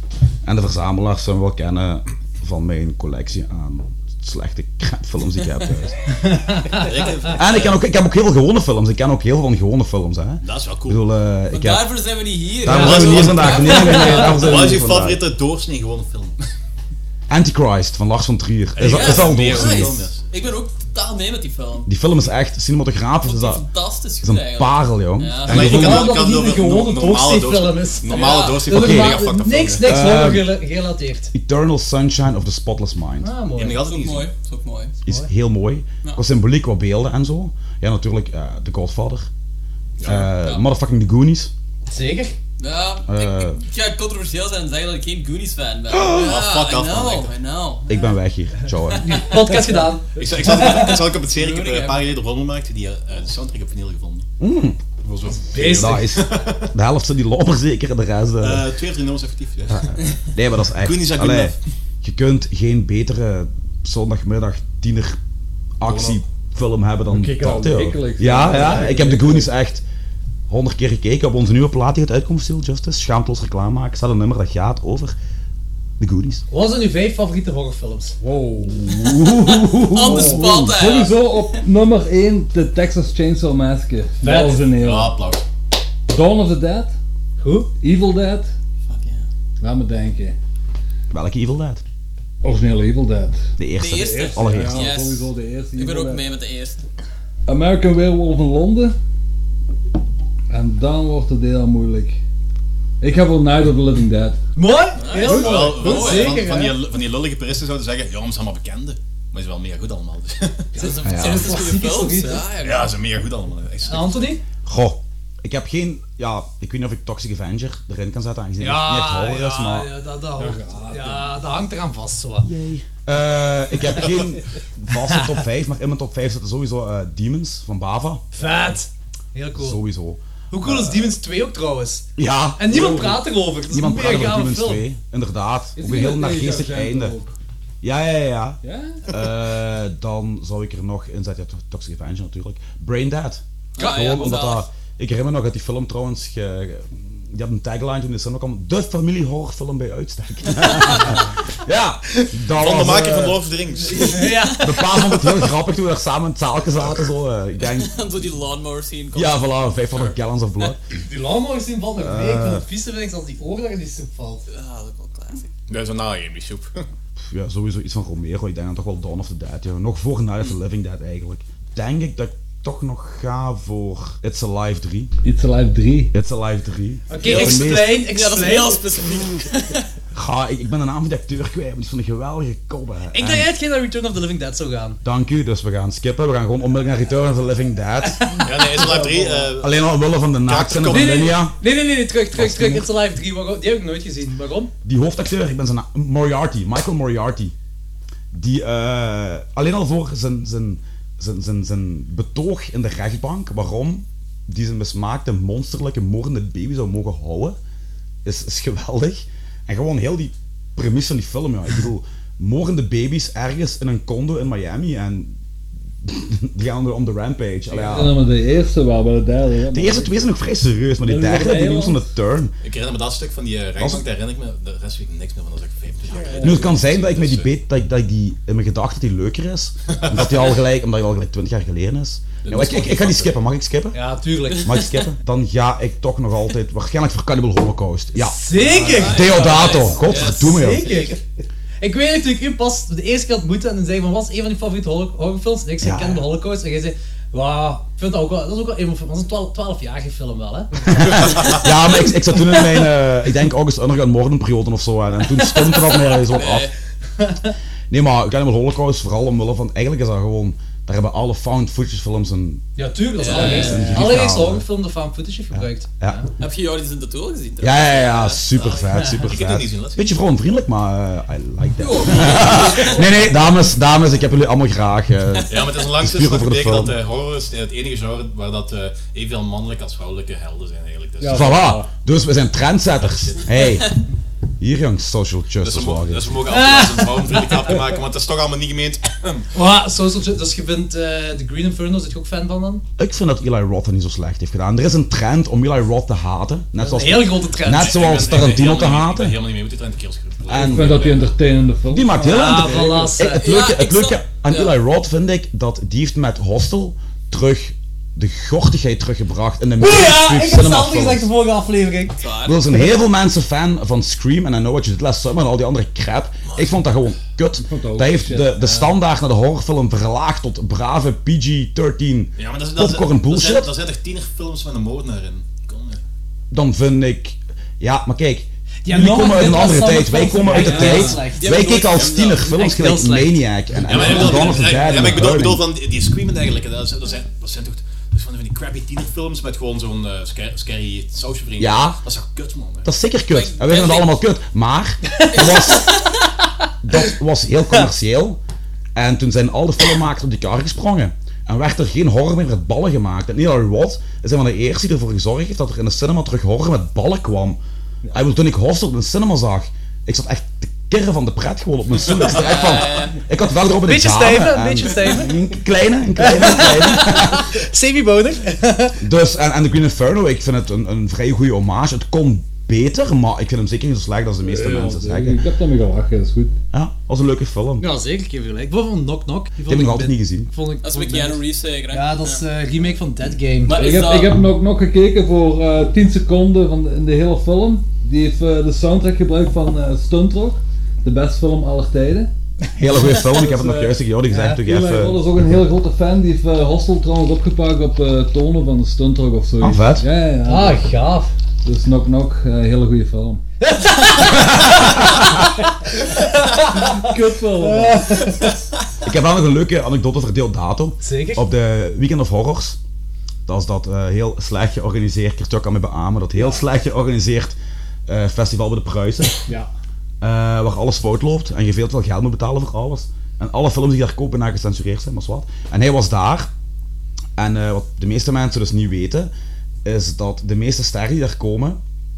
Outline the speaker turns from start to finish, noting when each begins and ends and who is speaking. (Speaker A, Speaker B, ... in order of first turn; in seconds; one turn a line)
Speaker A: 0.4-6.0
Speaker B: 6.4-6.8
Speaker C: 6.7-7.8
Speaker A: 7.3-11.9
Speaker C: 10.4-11.0
Speaker D: 11.5-14.6
Speaker A: 12.6-15.2
Speaker B: 12.7-14.1
Speaker C: 12.7-16.4
Speaker A: 17.3-20.0
Speaker C: 18.8-20.2
Speaker D: 18.8-21.9
Speaker A: 21.9-23.6
Speaker D: 23.2-26.0
Speaker A: 24.2-26.1
Speaker C: 25.4-30.0
Speaker B: 25.5-31.3
Speaker D: 28.1-28.7
Speaker A: 28.7-29.2
Speaker A: 29.8-30.5
Speaker A: 31.3-33.3
Speaker B: 33.2-33.8
Speaker C: 33.5-34.3
Speaker D: 33.8-34.9
Speaker A: 35.0-39.3
Speaker C: 40.0-40.3
Speaker A: 40.0-41.5
Speaker B: 41.9-42.4
Speaker D: 42.6-47.9
Speaker A: 43.0-43.6
Speaker A: 45.9-46.3
Speaker C: 46.0-47.3
Speaker A: 47.9-49.2
Speaker B: 49.0-51.0
Speaker E: 49.5-49.9
Speaker C: 50.1-54.2
Speaker D: 50.9-52.1
Speaker A: 54.4-54.8
Speaker C: 55.0-56.7
Speaker B: 55.5-56.1
Speaker A: 55.7-58.6
Speaker C: 58.4-59.9
Speaker A: 59.7-65.2
Speaker C: 60.8-61.6
Speaker A: 65.8-69.8
Speaker C: 65.8-66.2
Speaker E: 67.1-69.5
Speaker A: 70.5-75.2
Speaker A: 76.0-76.4
Speaker B: 76.5-78.2
Speaker E: 78.2-85.2
Speaker D: 79.9-81.2
Speaker B: 84.2-84.6
Speaker C: 84.7-85.4
Speaker E: 86.1-86.9
Speaker B: 87.4-87.7
Speaker E: 87.8-88.5
Speaker D: 88.9-89.2
Speaker E: 89.6-90.3
Speaker A: 91.1-91.8
Speaker E: 92.4-96.2
Speaker A: 93.6-94.9
Speaker D: 93.8-96.8
Speaker E: 97.5-99.0
Speaker E: 100.5-102.2
Speaker E: 103.0-104.4
Speaker B: 104.5-106.8
Speaker D: 105.0-106.4
Speaker C: 105.1-110.7
Speaker E: 105.2-106.0
Speaker D: 110.7-112.9
Speaker B: 110.8-112.5
Speaker A: 111.0-111.5
Speaker C: 112.6-114.3
Speaker B: 113.8-114.4
Speaker A: 114.6-119.9
Speaker B: 118.6-122.5
Speaker E: 120.4-121.3
Speaker A: 122.4-128.2
Speaker B: 128.3-129.8
Speaker A: 129.6-131.1
Speaker B: 130.5-134.8
Speaker A: 132.2-137.1
Speaker E: 135.8-137.3
Speaker A: 137.8-153.4
Speaker E: 138.6-139.0
Speaker D: 143.8-144.7
Speaker B: 143.8-144.2
Speaker D: 150.7-151.2
Speaker C: 152.6-154.4
Speaker D: 153.9-154.6
Speaker B: 154.0-154.7
Speaker A: 154.6-157.9
Speaker D: 157.6-159.4
Speaker A: 159.1-160.8
Speaker B: 160.9-164.4
Speaker A: 162.0-162.6
Speaker D: 164.5-165.5
Speaker C: 165.7-166.8
Speaker A: 167.2-175.1
Speaker E: 175.2-176.1
Speaker A: 176.1-177.9
Speaker B: 177.1-178.8
Speaker D: 177.2-179.8
Speaker A: 179.0-179.4
Speaker A: 180.1-183.5
Speaker B: 183.1-185.0
Speaker A: 185.0-188.3
Speaker B: 188.0-188.4
Speaker C: 188.4-189.8
Speaker E: 189.0-189.4
Speaker A: 189.6-191.6
Speaker C: 190.4-191.4
Speaker B: 190.8-194.7
Speaker A: 192.3-192.9
Speaker A: 194.8-197.5
Speaker A: 198.3-207.6
Speaker A: 208.2-215.3
Speaker A: 216.0-218.1
Speaker C: 217.7-218.1
Speaker E: 217.9-220.2
Speaker A: 219.7-222.5
Speaker E: 221.0-222.0
Speaker C: 222.6-227.5
Speaker A: 223.8-224.0
Speaker A: 226.4-234.0
Speaker C: 229.9-230.6
Speaker C: 232.4-233.3
Speaker B: 233.9-234.8
Speaker A: 234.6-238.4
Speaker B: 238.1-241.2
Speaker D: 238.6-241.1
Speaker C: 238.7-239.4
Speaker A: 238.9-240.9
Speaker B: 241.8-251.6
Speaker A: 245.8-246.2
Speaker A: 250.9-256.7
Speaker C: 251.0-251.6
Speaker D: 255.6-256.7
Speaker B: 257.2-257.5
Speaker A: 257.9-262.6
Speaker B: 262.8-266.2
Speaker D: 263.2-264.1
Speaker A: 263.3-264.6
Speaker A: 265.5-266.2
Speaker D: 266.4-268.4
Speaker A: 267.6-277.0
Speaker C: 268.5-270.1
Speaker D: 271.8-273.1
Speaker C: 275.5-281.6
Speaker E: 281.2-281.9
Speaker A: 281.3-283.9
Speaker C: 283.0-283.6
Speaker A: 284.6-286.4
Speaker C: 285.6-289.5
Speaker B: 286.5-287.8
Speaker B: 289.5-292.8
Speaker A: 293.0-299.4
Speaker B: 296.8-297.9
Speaker C: 297.7-301.3
Speaker A: 300.5-301.1
Speaker E: 300.6-303.1
Speaker A: 301.9-311.3
Speaker B: 302.2-303.5
Speaker D: 303.3-304.8
Speaker B: 309.8-312.2
Speaker D: 312.2-312.6
Speaker A: 312.4-323.7
Speaker C: 316.4-316.9
Speaker E: 317.6-318.9
Speaker C: 322.4-326.0
Speaker A: 326.5-335.6
Speaker B: 328.8-331.6
Speaker E: 330.4-331.2
Speaker D: 331.2-332.6
Speaker B: 332.4-334.5
Speaker C: 333.8-342.9
Speaker A: 341.6-342.0
Speaker A: 342.8-345.9
Speaker D: 343.3-344.2
Speaker D: 345.3-346.0
Speaker A: 346.8-348.4
Speaker A: 348.9-357.6
Speaker A: 358.1-367.5
Speaker D: 362.2-363.2
Speaker B: 363.8-365.3
Speaker B: 366.2-369.0
Speaker A: 369.0-375.4
Speaker E: 374.4-376.5
Speaker A: 376.7-377.9
Speaker B: 377.8-383.8
Speaker A: 379.7-380.5
Speaker D: 380.8-382.4
Speaker D: 383.6-384.4
Speaker E: 383.7-392.3
Speaker A: 392.7-395.2
Speaker E: 393.1-394.0
Speaker B: 394.3-394.6
Speaker E: 394.6-400.9
Speaker A: 399.6-400.1
Speaker B: 400.4-401.3
Speaker E: 401.6-403.4
Speaker B: 403.6-405.1
Speaker A: 404.3-405.4
Speaker B: 405.9-407.1
Speaker E: 406.7-408.4
Speaker B: 407.6-408.6
Speaker A: 409.0-412.8
Speaker B: 411.0-411.4
Speaker A: 413.5-417.6
Speaker A: 418.1-419.4
Speaker A: 420.2-426.5
Speaker A: 427.4-429.3
Speaker A: 429.8-431.8